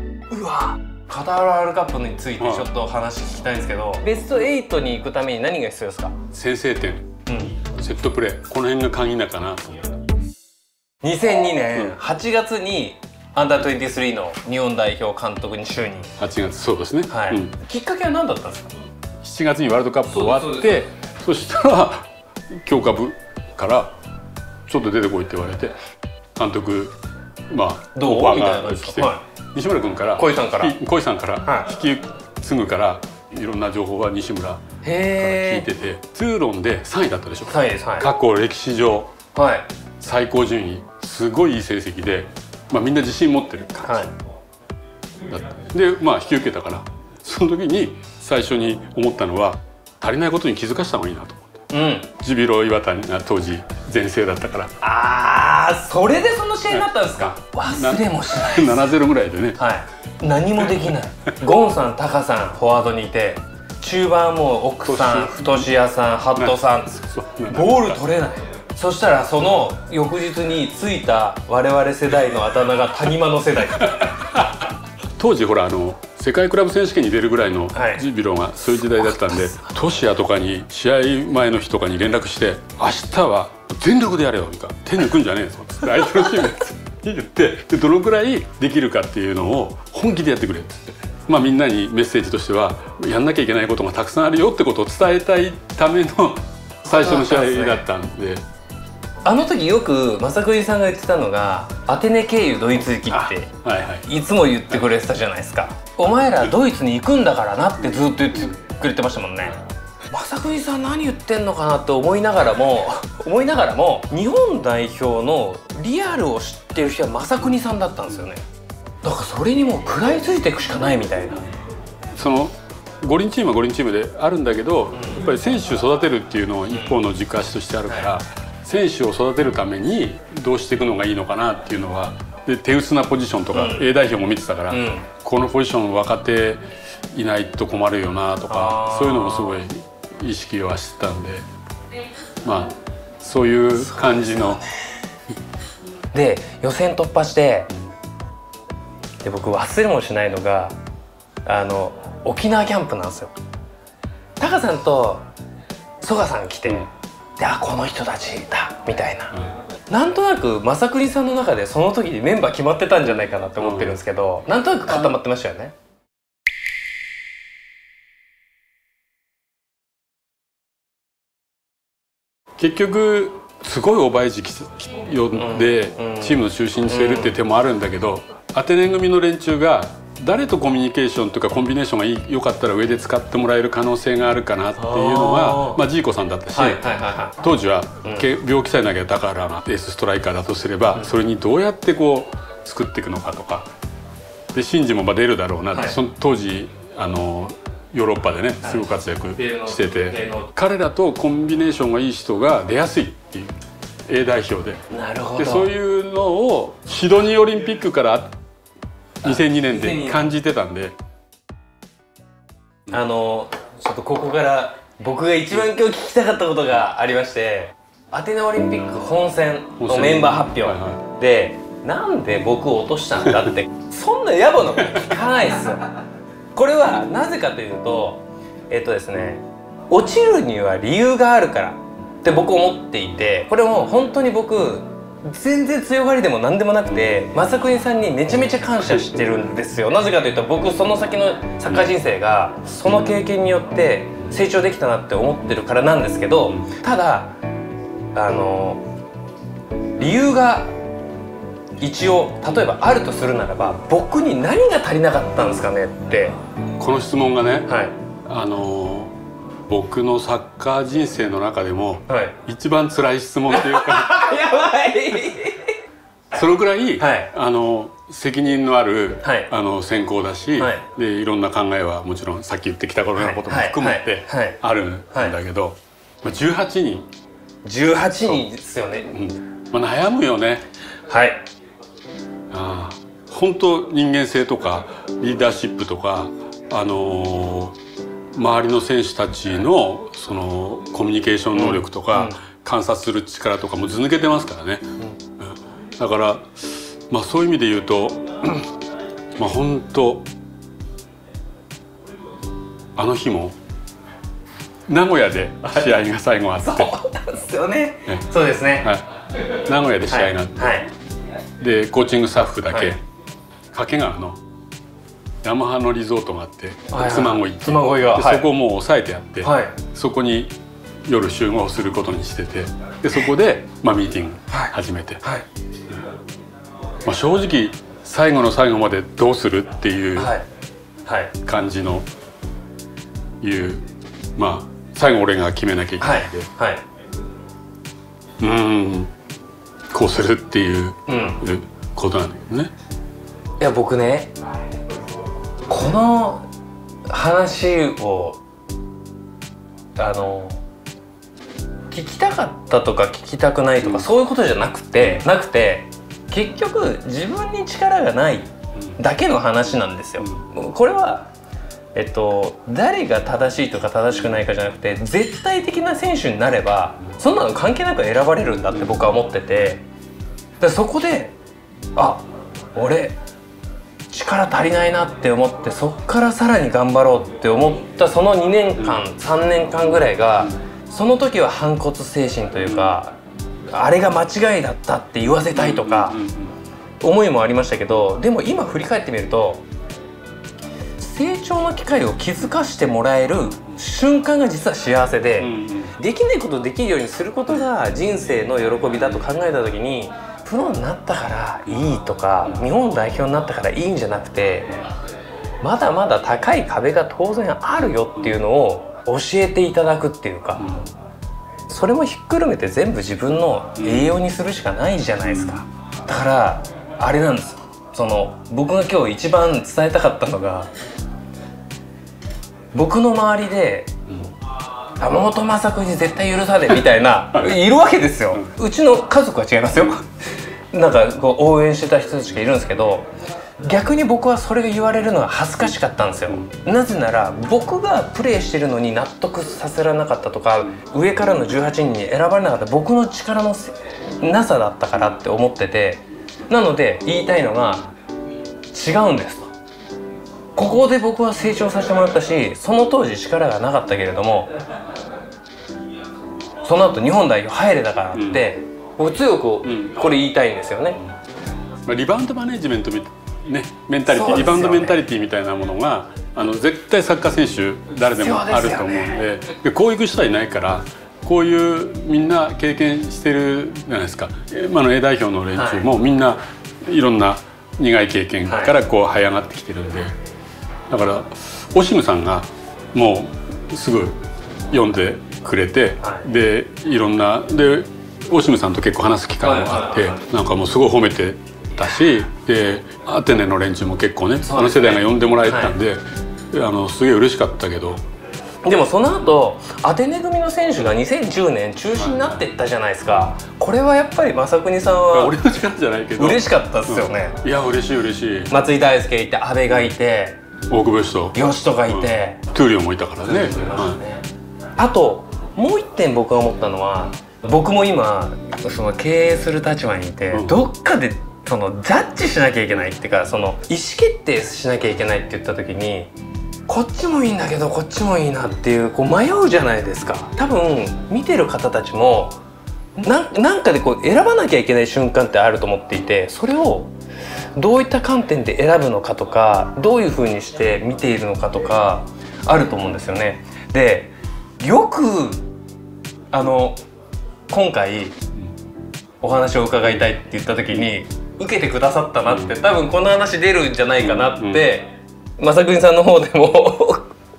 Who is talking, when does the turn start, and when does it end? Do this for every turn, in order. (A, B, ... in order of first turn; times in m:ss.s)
0:00.3-0:06.2 A
0:02.4-0:02.7 B
0:06.3-0:07.1 B
0:07.3-0:07.6 A
0:07.6-0:09.8 B
0:11.0-0:16.2 A
0:16.2-0:17.6 B
0:17.1-0:18.7 A
0:19.2-0:24.0 B
0:20.1-0:20.8 A
0:24.7-0:25.8 B
0:26.4-0:27.0 B
0:27.5-0:34.6 B
0:28.0-0:29.2 A
0:30.2-0:30.8 A
0:34.8-0:35.7 A
0:35.1-0:39.1 B
0:37.5-0:38.1 A
0:39.4-0:39.7 A
0:40.0-0:44.1 B
0:43.9-0:44.1 A
0:45.3-0:51.5 B
0:51.7-0:52.1 A
0:52.2-0:54.7 B
0:54.8-0:58.9 A
0:56.7-0:59.6 B
0:59.6-1:06.9 A
1:04.8-1:05.7 B
1:06.4-1:08.0 B
1:07.5-1:14.1 A
1:13.8-1:14.7 B
1:15.2-1:38.4 B
1:17.7-1:18.0 A
1:19.0-1:19.7 A
1:36.9-1:37.8 A
1:39.2-1:43.5 A
1:43.1-1:44.0 B
1:44.0-1:58.4 A
1:59.0-2:01.4 A
2:02.2-2:21.4 B
2:05.0-2:05.2 A
2:06.7-2:07.0 A
2:13.5-2:13.8 A
2:14.7-2:15.1 A
2:18.5-2:19.6 A
2:22.4-2:24.6 B
2:23.9-2:24.7 A
2:26.1-2:27.7 A
2:29.2-2:30.8 A
2:31.4-2:33.3 A
2:34.4-2:35.3 A
2:36.0-2:39.4 A
2:39.9-2:45.8 A
2:43.6-2:44.0 B
2:52.6-3:06.8 B
2:55.3-2:57.4 A
3:04.8-3:05.8 A
3:06.5-3:07.4 A
3:07.4-3:13.7 B
3:14.5-3:23.6 B
3:18.6-3:20.5 A
3:24.1-3:24.8 B
3:24.9-3:25.7 A
3:25.4-3:28.4 B
3:29.2-3:31.0 B
3:29.2-3:30.2 A
3:32.9-3:46.0 A
3:39.8-3:41.0 B
3:46.6-4:07.4 A
4:08.2-4:08.8 A
4:10.0-4:10.7 A
4:11.8-4:16.4 A
4:16.8-4:17.7 B
4:17.7-4:18.0 A
4:18.3-4:19.2 B
4:19.7-4:24.3 B
4:22.1-4:22.4 A
4:23.5-4:25.7 A
4:26.3-4:37.1 B
4:27.0-4:27.3 A
4:29.2-4:29.5 A
4:30.6-4:30.8 A
4:33.2-4:34.6 A
4:37.6-4:39.1 A
4:39.1-4:40.6 B
4:41.1-4:41.4 A
4:42.5-4:47.8 B
4:48.3-4:58.7 B
4:51.6-4:52.4 A
4:59.4-5:00.3 B
5:03.0-5:03.6 B
5:04.9-5:06.9 B
5:05.6-5:06.0 A
5:06.6-5:08.9 A
5:08.8-5:09.1 B
5:09.7-5:10.8 B
5:10.1-5:10.9 A
5:11.6-5:13.0 B
5:13.7-5:14.4 B
5:15.4-5:20.5 B
5:16.9-5:18.5 A
5:19.4-5:19.8 A
5:21.1-5:25.2 B
5:24.5-5:25.5 A
5:27.0-5:30.4 B
5:30.2-5:30.5 A
5:31.1-5:31.3 A
5:31.4-5:32.1 B
5:33.4-5:36.5 B
5:36.0-5:36.8 A
5:38.4-5:39.1 B
5:39.9-5:42.7 B
5:41.1-5:41.4 A
5:43.6-5:44.3 A
5:45.7-5:46.5 A
5:47.1-5:48.4 A
5:50.0-5:50.6 A
5:51.9-6:01.3 A
5:53.8-5:54.1 B
6:02.0-6:09.8 A
6:08.7-6:09.1 B
6:10.6-6:11.3 A
6:12.0-6:13.2 A
6:14.1-6:23.2 A
6:23.7-6:26.2 A
6:25.5-6:26.6 B
6:27.0-6:29.6 A
6:31.0-6:44.7 A
6:35.4-6:36.0 B
6:45.6-6:50.7 A
6:50.6-6:50.9 B
6:51.7-7:00.7 A
6:53.8-6:54.2 B
6:55.3-6:55.6 B
7:02.7-7:03.9 A
7:05.0-7:10.1 A
7:10.7-7:13.1 A
7:13.6-7:27.9 A
7:28.7-7:29.5 A
7:30.6-7:34.5 A
7:36.6-7:41.0 A
7:38.1-7:38.5 B
7:39.6-7:40.1 B
7:41.9-8:00.2 B
7:44.1-7:45.0 A
7:48.1-7:49.2 A
7:55.6-7:55.9 A
7:58.5-7:58.7 A
8:00.9-8:18.0 B
8:06.0-8:06.3 A
8:09.4-8:10.2 A
8:14.4-8:15.8 A
8:18.6-8:25.4 A
8:22.0-8:22.4 B
8:25.1-8:28.5 B
8:26.2-8:27.4 A
8:28.5-8:30.4 A
8:30.7-8:34.0 B
8:31.4-8:32.4 A
8:33.2-8:34.2 A
8:34.8-8:46.1 A
8:40.3-8:40.6 B
8:46.7-8:52.4 A
8:53.0-8:56.9 A
8:57.6-9:05.4 A
9:06.3-9:06.8 A
9:07.5-9:08.2 A
9:09.2-9:17.2 A
9:12.3-9:12.6 B
9:14.0-9:14.6 B